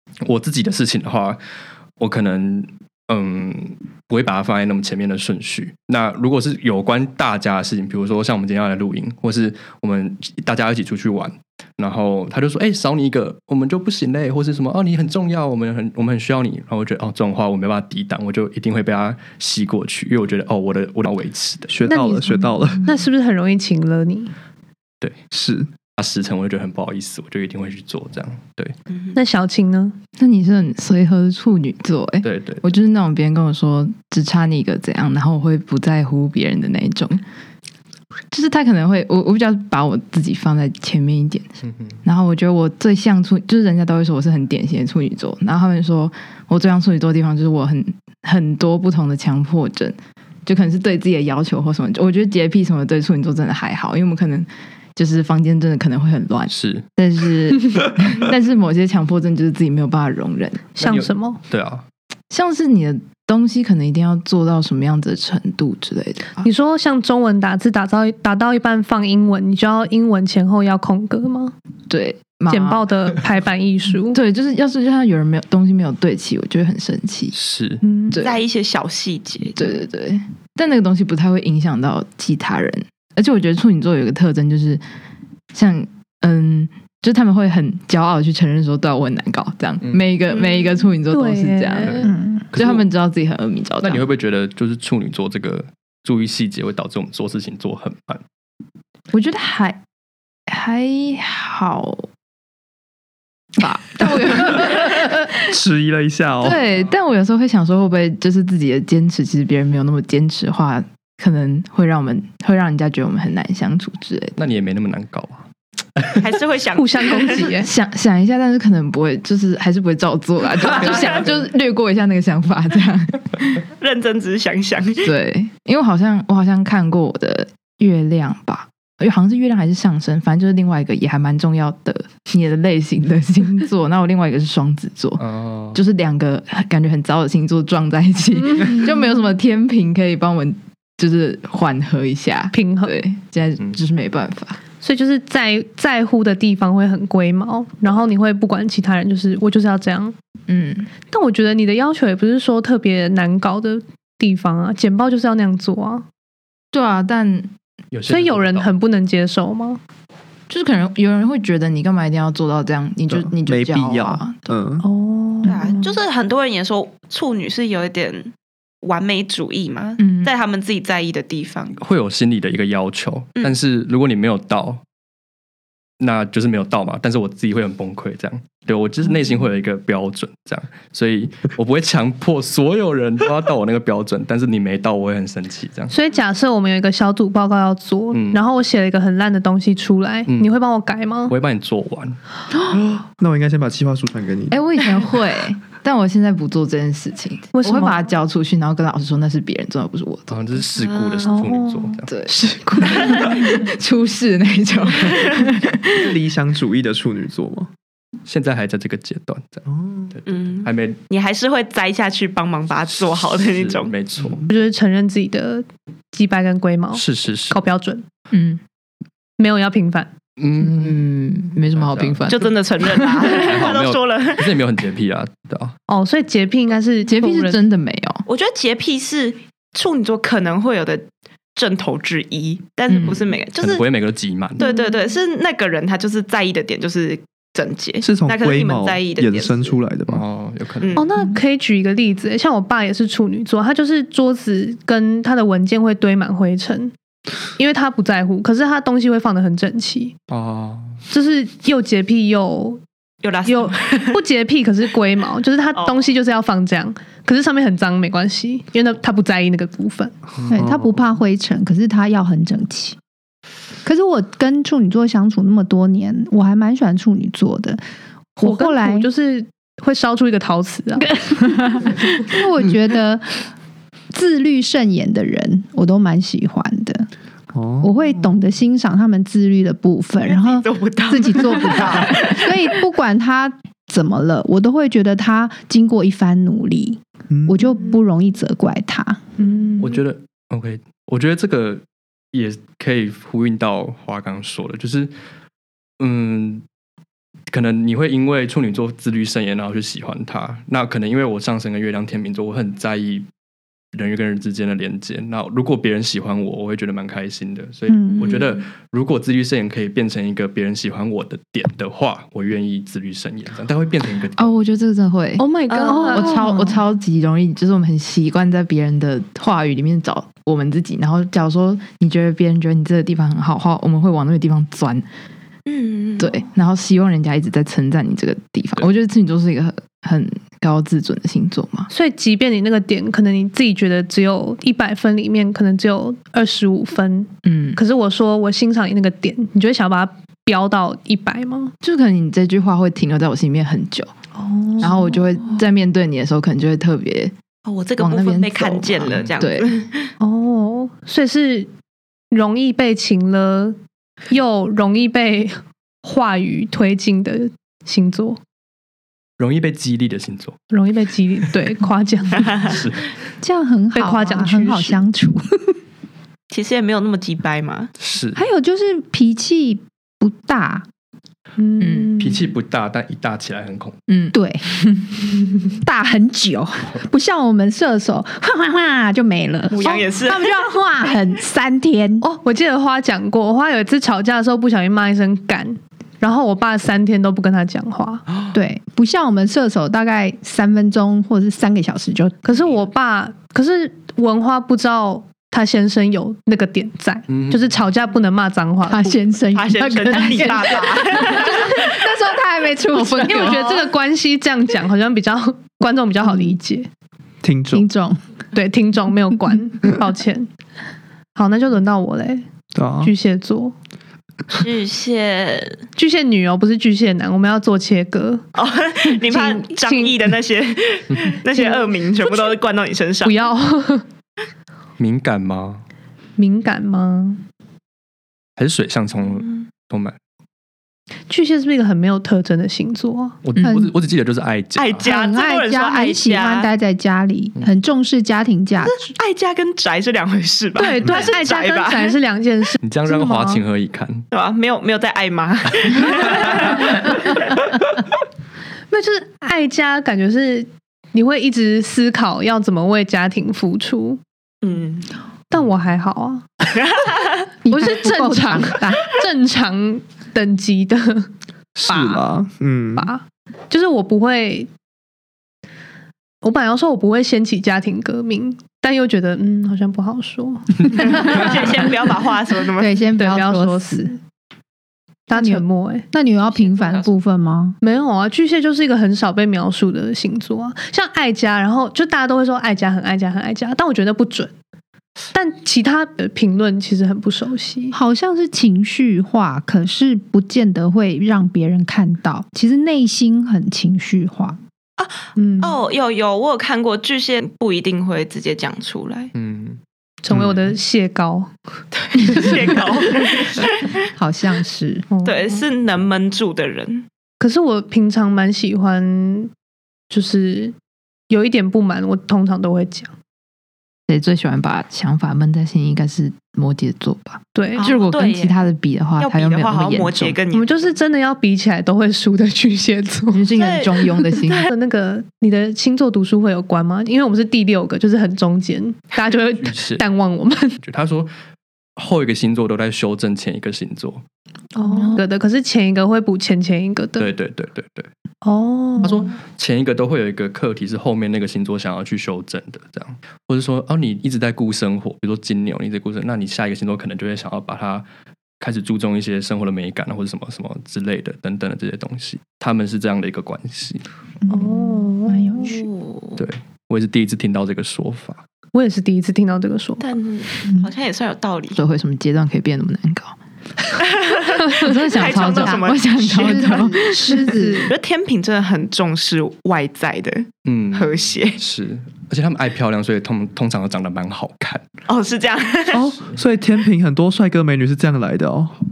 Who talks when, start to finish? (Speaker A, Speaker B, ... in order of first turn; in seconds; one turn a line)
Speaker A: 0.2-1.4
Speaker A: 2.0-21.8
Speaker B: 21.7-22.9
Speaker C: 21.9-24.3
Speaker B: 25.3-25.7
Speaker A: 25.9-28.8
Speaker C: 29.1-29.9
Speaker D: 30.2-37.2
Speaker A: 32.2-32.7
Speaker D: 38.3-60.7
Speaker A: 41.6-42.0
Speaker A: 56.5-56.9
Speaker C: 60.8-61.4
Speaker A: 60.8-61.9
Speaker D: 62.3-66.5
Speaker C: 66.4-71.5
Speaker D: 71.9-72.9
Speaker C: 72.5-74.2
Speaker D: 74.1-77.4
Speaker A: 77.3-77.8
Speaker C: 77.8-78.2
Speaker D: 78.1-78.4
Speaker E: 78.2-79.8
Speaker D: 79.6-84.8
Speaker D: 85.5-94.0
Speaker C: 91.1-92.1
Speaker A: 91.8-92.8
Speaker F: 92.0-92.5
Speaker A: 93.8-98.2
Speaker D: 99.1-99.8
Speaker D: 100.5-102.1
Speaker D: 103.6-105.2
Speaker B: 105.5-106.6
Speaker D: 106.4-114.4
Speaker A: 114.4-116.4
Speaker E: 116.2-117.5
Speaker C: 116.8-117.7
Speaker D: 117.5-123.6
Speaker E: 123.8-125.1
Speaker D: 125.0-135.2
Speaker A: 135.2-135.8
Speaker D: 135.7-144.6
Speaker C: 142.5-142.9
Speaker C: 144.8-150.2
Speaker D: 150.5-150.9
Speaker C: 151.1-156.1
Speaker D: 156.7-157.5
Speaker A: 157.9-158.7
Speaker C: 158.1-159.8
Speaker D: 160.5-164.4
Speaker B: 163.4-164.9
Speaker C: 164.8-165.8
Speaker E: 165.4-171.8
Speaker D: 170.0-170.3
Speaker A: 171.8-174.8
Speaker A: 176.0-185.9
Speaker C: 185.9-191.3
Speaker A: 188.1-188.4
Speaker A: 190.3-190.5
Speaker A: 191.3-192.2
Speaker B: 192.8-194.6
Speaker D: 194.5-200.6
Speaker C: 197.5-198.0
Speaker A: 200.3-202.1
Speaker E: 200.8-201.4
Speaker C: 201.3-203.3
Speaker D: 202.1-205.5
Speaker E: 202.8-203.4
Speaker B: 205.9-207.7
Speaker A: 208.3-211.0
Speaker B: 209.8-210.1
Speaker E: 210.3-213.9
Speaker A: 212.9-214.4
Speaker C: 214.5-218.1
Speaker A: 216.9-217.6
Speaker D: 218.3-218.6
Speaker C: 219.4-220.1
Speaker A: 220.4-221.0
Speaker D: 220.6-223.4
Speaker A: 221.7-222.2
Speaker E: 222.3-224.5
Speaker A: 223.3-225.8
Speaker C: 225.9-227.6
Speaker D: 227.1-228.2
Speaker E: 228.3-233.8
Speaker D: 232.9-233.2
Speaker A: 232.9-234.6
Speaker E: 234.6-239.8
Speaker C: 234.6-235.0
Speaker B: 238.0-240.2
Speaker A: 240.1-241.0
Speaker E: 240.8-241.1
Speaker C: 240.9-246.9
Speaker C: 247.6-250.2
Speaker A: 250.3-251.0
Speaker C: 251.1-252.8
Speaker E: 253.2-254.2
Speaker C: 253.4-260.1
Speaker E: 255.8-256.1
Speaker A: 260.4-260.7
Speaker F: 260.5-263.0
Speaker B: 260.5-261.1
Speaker F: 263.8-267.8
Speaker F: 268.4-269.1
Speaker C: 268.4-271.9
Speaker F: 271.7-273.4
Speaker F: 274.1-277.1
Speaker B: 277.5-278.3
Speaker F: 277.8-289.2
Speaker E: 280.2-282.7
Speaker B: 287.3-287.6
Speaker C: 289.4-290.0
Speaker A: 289.8-295.1
Speaker A: 296.0-296.6
Speaker A: 297.5-303.3
Speaker A: 303.9-314.6
Speaker F: 307.9-308.4
Speaker D: 314.4-325.1
Speaker C: 315.4-316.6
Speaker E: 315.7-316.3
Speaker F: 316.1-316.8
Speaker E: 325.7-326.4
Speaker D: 326.2-331.9
Speaker C: 331.9-341.7
Speaker D: 337.4-337.8
Speaker D: 341.8-344.1
Speaker C: 344.4-345.2
Speaker D: 344.8-347.3
Speaker E: 347.7-350.1
Speaker D: 348.0-349.7
Speaker C: 350.2-351.7
Speaker C: 352.3-353.8
Speaker C: 354.3-358.4
Speaker A: 359.4-360.6
Speaker C: 360.7-362.7
Speaker A: 362.5-363.1
Speaker F: 363.4-365.7
Speaker C: 363.9-365.0
Speaker E: 366.5-367.9
Speaker A: 368.0-368.4
Speaker F: 368.4-370.9
Speaker C: 371.6-372.4
Speaker D: 371.8-372.1
Speaker A: 372.2-374.0
Speaker F: 374.3-374.7
Speaker F: 375.8-382.2
Speaker E: 379.7-380.6
Speaker C: 382.2-388.2
Speaker F: 388.5-392.4
Speaker C: 392.4-399.2
Speaker A: 397.3-397.7
Speaker F: 398.9-403.9
Speaker E: 399.5-401.8
Speaker C: 401.3-401.6
Speaker C: 402.9-406.9
Speaker B: 407.4-407.9
Speaker F: 407.7-408.2
Speaker C: 408.6-410.5
Speaker C: 411.4-412.5
Speaker B: 412.7-413.1
Speaker C: 413.0-413.8
Speaker E: 414.5-415.8
Speaker C: 416.0-418.4
Speaker E: 418.6-423.5
Speaker C: 419.2-420.2
Speaker C: 421.6-422.5
Speaker C: 423.2-424.1
Speaker A: 425.0-425.9
Speaker C: 426.4-427.4
Speaker A: 428.6-430.2
Speaker E: 429.4-429.7
Speaker C: 431.3-433.4
Speaker A: 433.4-435.1
Speaker F: 433.6-433.9
Speaker E: 434.8-436.7
Speaker F: 435.1-439.0
Speaker E: 438.8-442.2
Speaker C: 440.8-443.6
Speaker A: 442.8-444.3
Speaker E: 444.3-447.2
Speaker C: 448.9-454.2
Speaker E: 454.6-455.1
Speaker C: 455.5-456.5
Speaker E: 456.8-457.4
Speaker F: 457.6-459.1
Speaker C: 457.7-461.3
Speaker B: 461.8-463.1
Speaker C: 461.9-462.2
Speaker C: 462.9-464.7
Speaker C: 466.4-471.6
Speaker E: 471.0-473.0
Speaker F: 472.8-474.1
Speaker C: 473.2-474.2
Speaker C: 475.3-476.1
Speaker F: 475.3-477.8
Speaker E: 476.5-477.1
Speaker C: 477.8-484.5
Speaker C: 485.3-487.9
Speaker F: 487.9-494.6
Speaker E: 495.0-499.3
Speaker C: 495.4-495.8
Speaker A: 499.4-500.6
Speaker C: 500.2-501.5
Speaker E: 501.9-503.9
Speaker C: 502.2-502.6
Speaker F: 504.2-505.1
Speaker C: 505.1-505.6
Speaker E: 505.2-507.1
Speaker C: 507.4-509.5
Speaker C: 510.1-510.8
Speaker C: 511.3-513.1
Speaker D: 514.1-520.4
Speaker C: 517.5-517.9
Speaker E: 517.8-518.6
Speaker E: 519.2-520.9
Speaker C: 520.5-524.1
Speaker D: 523.3-524.7
Speaker E: 523.5-524.7
Speaker C: 524.7-530.8
Speaker A: 529.6-530.0
Speaker A: 530.8-531.3
Speaker A: 532.0-534.2
Speaker C: 534.8-537.3
Speaker F: 534.9-535.2
Speaker A: 537.2-538.1
Speaker C: 538.4-539.2
Speaker A: 539.0-548.1
Speaker A: 548.6-554.0
Speaker F: 554.5-555.8
Speaker C: 554.5-555.8
Speaker E: 555.6-556.4
Speaker A: 556.4-558.4
Speaker C: 558.7-560.1
Speaker E: 560.0-561.8
Speaker D: 561.8-563.4
Speaker E: 564.0-567.0
Speaker D: 564.8-567.0
Speaker F: 564.9-567.9
Speaker C: 567.1-567.9
Speaker E: 567.8-571.6
Speaker A: 570.7-574.9
Speaker E: 575.1-576.0
Speaker B: 575.9-578.8
Speaker A: 576.1-576.4